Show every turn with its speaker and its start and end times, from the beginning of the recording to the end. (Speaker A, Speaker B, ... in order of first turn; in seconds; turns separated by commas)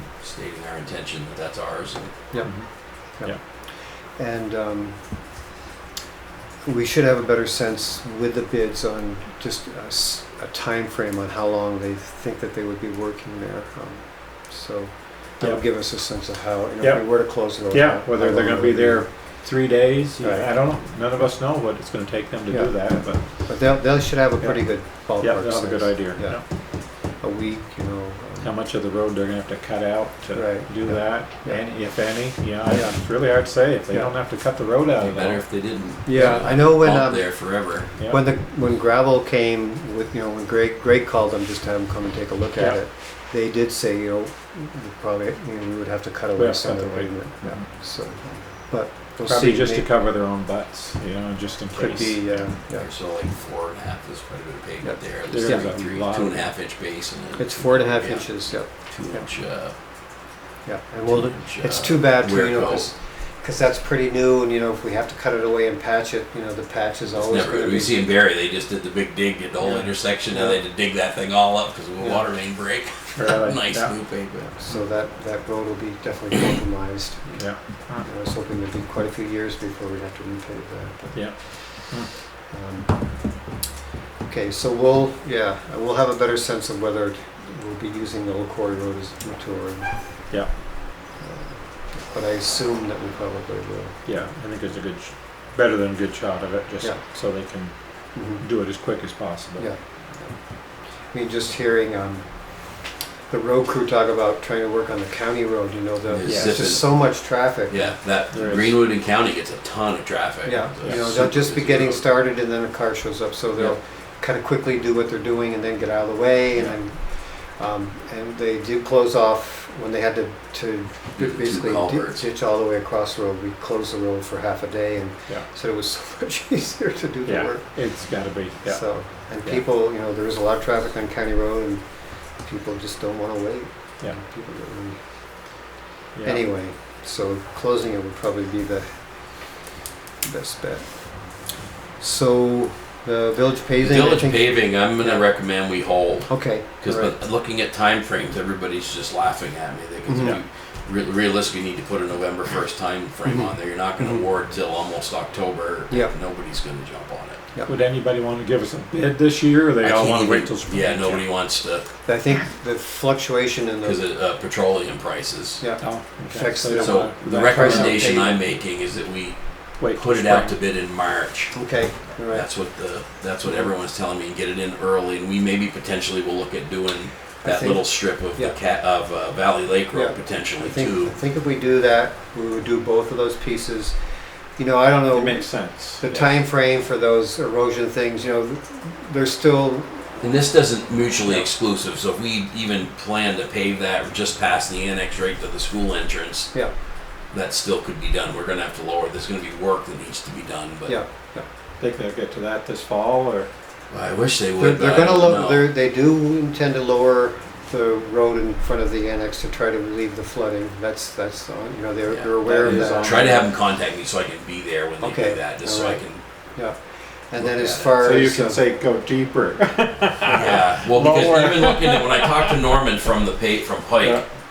Speaker A: 0.2-2.1, Speaker B: 2.3-5.4, Speaker C: 2.4-2.7, Speaker B: 6.6-19.1, Speaker C: 16.8-23.6, Speaker B: 20.2-20.5, Speaker B: 22.5-28.5, Speaker C: 24.4-26.4, Speaker C: 28.4-35.4, Speaker B: 30.4-31.6, Speaker B: 32.7-33.2, Speaker A: 35.0-38.0, Speaker B: 36.0-49.9, Speaker C: 38.0-38.2, Speaker C: 46.4-47.6, Speaker C: 49.3-52.4, Speaker B: 51.7-52.9, Speaker A: 52.8-59.7, Speaker B: 54.8-55.7, Speaker C: 55.3-56.5, Speaker B: 57.4-59.3, Speaker B: 60.6-68.1, Speaker A: 61.0-62.9, Speaker A: 67.1-74.5, Speaker B: 69.6-70.6, Speaker B: 72.0-72.3, Speaker C: 73.2-74.0, Speaker B: 74.5-81.9, Speaker C: 77.4-78.1, Speaker C: 81.1-82.1, Speaker B: 82.5-83.5, Speaker B: 84.2-90.3, Speaker B: 91.2-94.1, Speaker C: 94.1-99.7, Speaker B: 98.2-98.4, Speaker B: 99.6-107.9, Speaker A: 106.1-112.0, Speaker C: 106.3-106.8, Speaker C: 108.3-108.8, Speaker B: 110.5-127.7, Speaker A: 121.2-122.2, Speaker C: 127.2-129.6, Speaker B: 128.7-135.6, Speaker C: 136.2-136.4, Speaker B: 136.2-139.7, Speaker B: 140.2-141.4, Speaker B: 142.0-145.3, Speaker A: 143.8-157.4, Speaker B: 146.3-147.2, Speaker B: 150.1-150.4, Speaker B: 153.2-154.2, Speaker C: 157.7-161.2, Speaker A: 159.8-161.9, Speaker B: 162.1-164.0, Speaker A: 163.8-165.6, Speaker B: 165.6-168.4, Speaker C: 165.8-168.3, Speaker A: 166.8-171.6, Speaker C: 169.8-170.6, Speaker B: 171.5-172.5, Speaker A: 172.2-181.1, Speaker B: 173.4-173.7, Speaker B: 177.4-178.6, Speaker B: 179.9-184.0, Speaker B: 184.6-190.2, Speaker C: 185.1-186.3, Speaker A: 190.2-196.6, Speaker A: 197.3-201.0, Speaker B: 200.9-201.5, Speaker C: 201.8-203.5, Speaker A: 203.9-205.7, Speaker B: 204.6-213.4, Speaker A: 212.1-216.2, Speaker C: 212.4-213.5, Speaker B: 215.0-216.0, Speaker B: 217.3-218.6, Speaker A: 217.4-218.0, Speaker C: 218.0-222.4, Speaker A: 220.3-224.2, Speaker C: 224.0-224.2